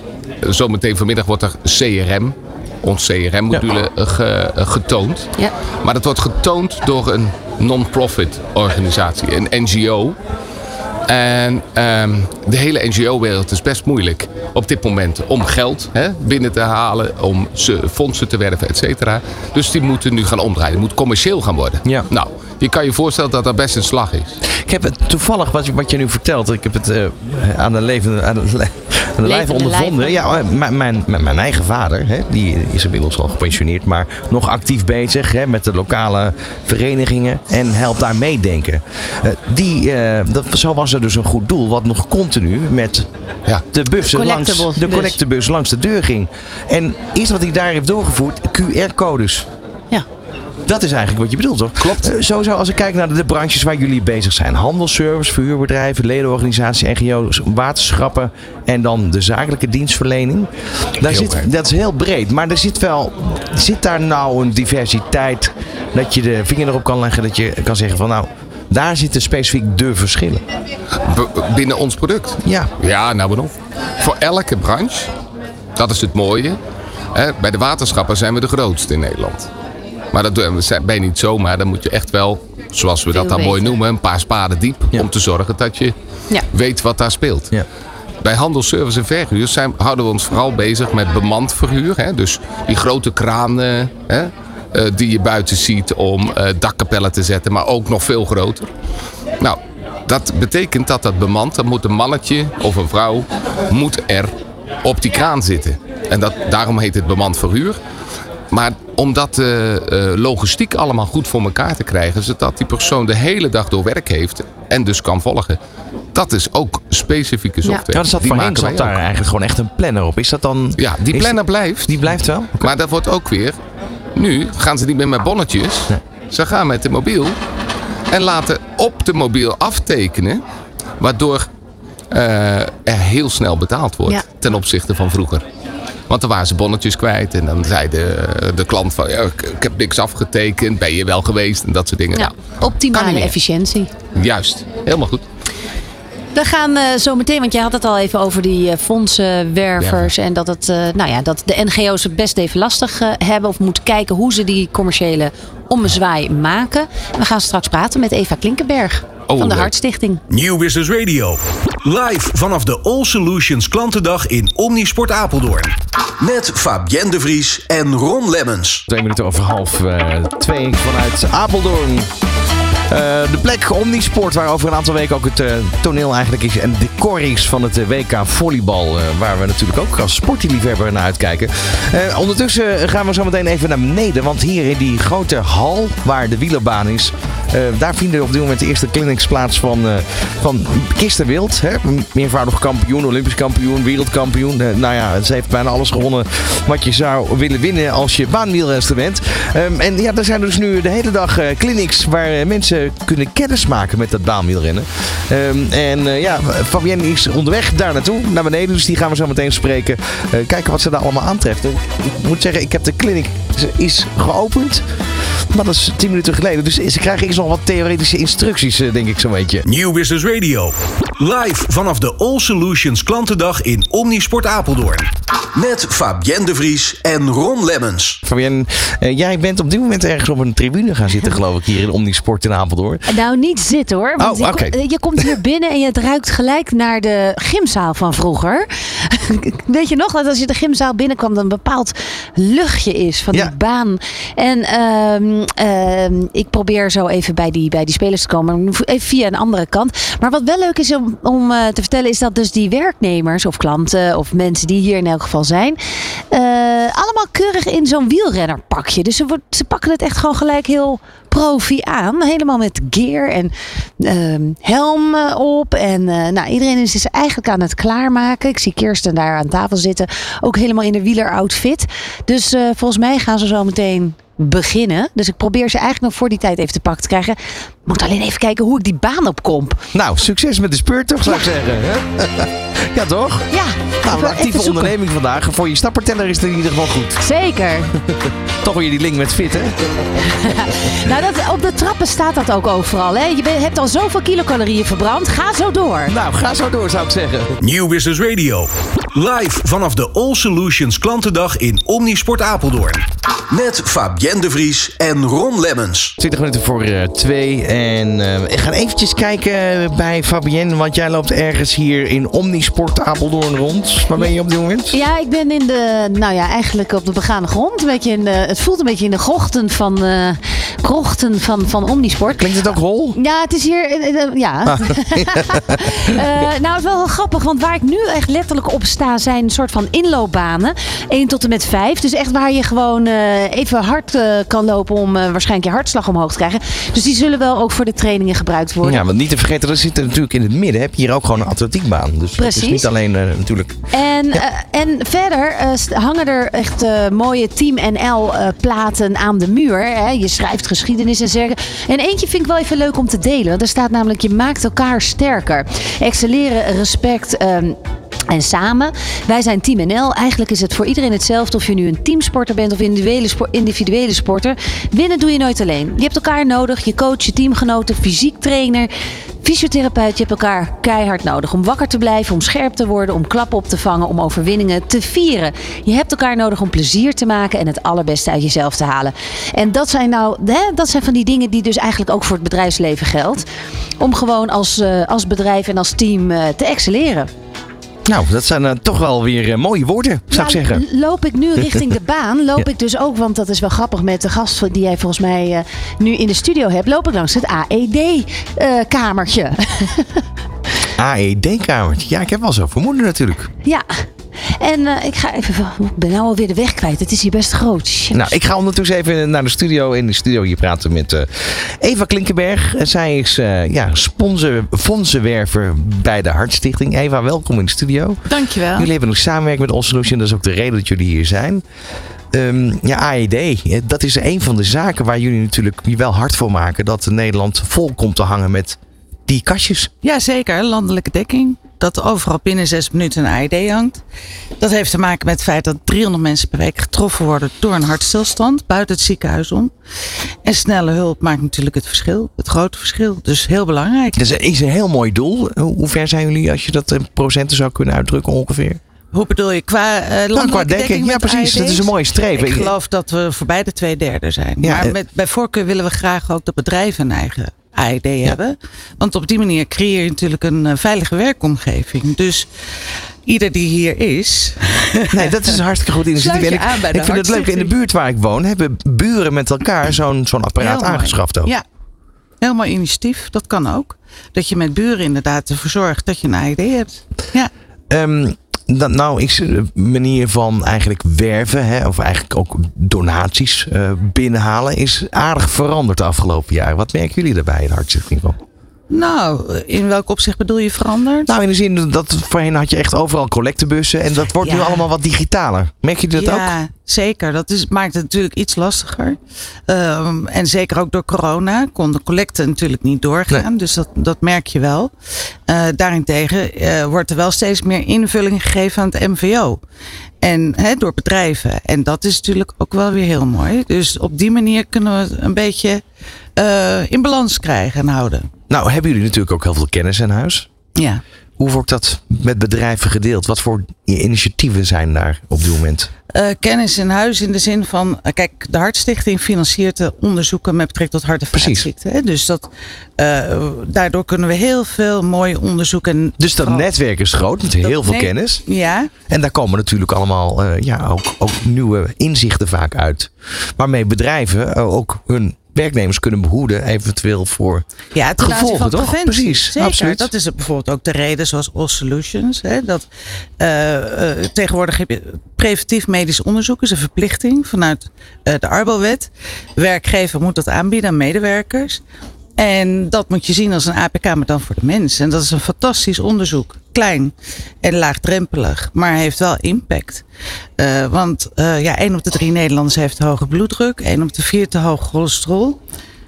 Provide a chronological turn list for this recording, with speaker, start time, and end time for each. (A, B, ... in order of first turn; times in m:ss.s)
0:00.4-0:10.2 A
0:11.1-0:24.4 A
0:24.5-0:43.1 B
0:29.2-0:30.2 C
0:43.7-0:49.5 B
0:44.0-0:45.2 C
0:50.6-1:10.4 B
0:51.8-0:52.1 A
1:01.0-1:01.4 A
1:11.0-1:15.1 A
1:12.4-1:12.7 B
1:15.8-1:16.6 A
1:17.1-1:19.5 A
1:20.1-1:25.9 A
1:23.1-1:23.7 C
1:26.5-1:27.5 A
1:28.2-1:38.7 A
1:39.4-1:47.8 A
1:48.5-1:55.6 A
1:56.1-1:59.0 A
1:57.9-2:02.7 B
2:00.8-2:03.6 A
2:04.2-2:07.4 A
2:08.1-2:10.4 A
2:11.0-2:11.5 A
2:12.1-2:15.4 A
2:16.1-2:23.3 A
2:22.1-2:23.9 C
2:24.1-2:25.2 A
2:26.3-2:40.2 C
2:29.8-2:30.1 A
2:39.3-2:39.7 A
2:40.3-2:48.8 D
2:48.9-2:52.1 B
2:52.9-3:39.6 B
3:39.6-3:48.2 D
3:48.2-3:53.0 B
3:53.1-4:15.8 C
3:54.2-3:54.8 B
4:16.3-4:39.8 C
4:39.9-4:43.5 B
4:43.5-4:44.9 C
4:44.0-4:47.2 B
4:47.2-4:47.9 C
4:48.0-4:49.9 B
4:50.2-4:56.1 C
4:56.0-4:57.6 B
4:57.6-5:06.1 D
5:06.2-5:15.0 B
5:14.9-5:39.0 C
5:22.4-5:23.2 B
5:24.6-5:25.8 B
5:38.8-5:43.8 B
5:42.4-5:42.9 C
5:43.9-5:57.8 C
5:58.3-6:08.9 C
6:09.4-6:23.4 C
6:24.0-6:27.3 C
6:28.0-6:30.8 B
6:30.3-6:40.2 C
6:41.0-6:43.5 B
6:43.6-6:48.3 C
6:48.1-7:01.6 B
6:58.3-6:58.9 E
7:02.3-7:09.9 B
7:10.0-7:14.0 E
7:14.6-7:19.7 E
7:20.4-7:24.2 E
7:24.1-7:28.8 B
7:29.1-7:42.5 E
7:30.3-7:32.7 B
7:34.6-7:35.0 B
7:43.2-7:45.6 E
7:45.1-7:51.5 B
7:46.1-7:47.7 E
7:50.6-7:51.6 E
7:52.4-7:57.5 E
7:57.9-8:08.4 B
8:08.9-8:11.3 E
8:11.2-8:16.5 B
8:14.4-8:14.9 E
8:16.2-8:24.9 E
8:25.5-8:29.6 E
8:30.2-8:35.8 E
8:36.4-8:38.3 E
8:38.5-8:40.5 B
8:40.8-8:41.0 E
8:41.4-8:45.9 B
8:46.1-8:56.7 E
8:51.3-8:51.7 B
8:56.2-8:58.4 B
8:57.6-8:58.9 E
8:59.1-9:07.6 B
9:07.9-9:12.8 E
9:08.2-9:10.1 B
9:13.4-9:21.8 E
9:22.4-9:30.0 E
9:30.6-9:35.6 E